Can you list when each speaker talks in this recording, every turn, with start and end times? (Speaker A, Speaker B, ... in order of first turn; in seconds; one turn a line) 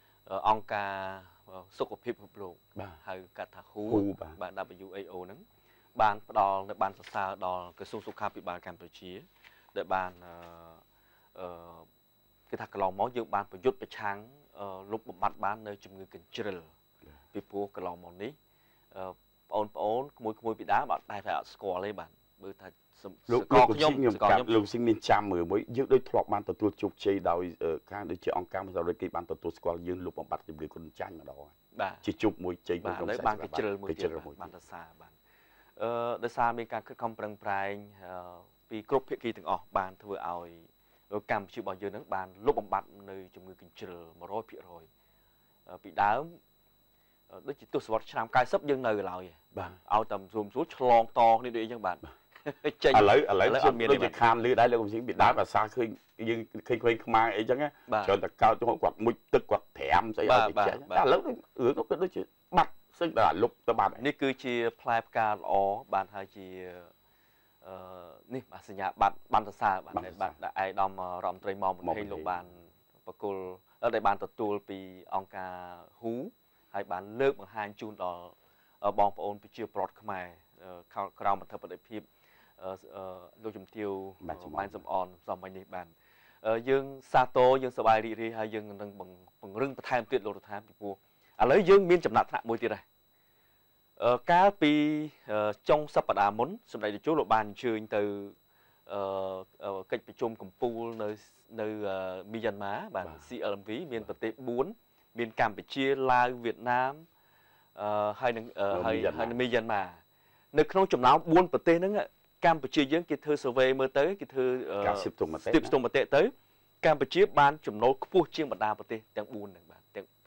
Speaker A: 0.3-5.4
Speaker B: 3.9-4.4
Speaker A: 6.0-10.8
Speaker A: 11.3-11.9
Speaker A: 12.5-16.7
Speaker A: 17.3-18.4
Speaker A: 18.9-24.6
Speaker B: 23.3-34.5
Speaker A: 31.7-32.0
Speaker A: 32.8-35.2
Speaker A: 35.8-44.9
Speaker A: 45.7-46.4
Speaker A: 47.3-54.2
Speaker B: 52.9-64.0
Speaker A: 57.9-58.2
Speaker A: 60.2-61.0
Speaker A: 64.0-66.9
Speaker A: 67.6-82.1
Speaker B: 69.9-70.3
Speaker B: 71.8-72.5
Speaker A: 82.6-92.8
Speaker B: 84.2-84.8
Speaker A: 94.0-98.3
Speaker A: 98.9-107.0
Speaker A: 107.8-110.0
Speaker B: 108.7-109.4
Speaker A: 110.5-120.1
Speaker B: 114.8-115.8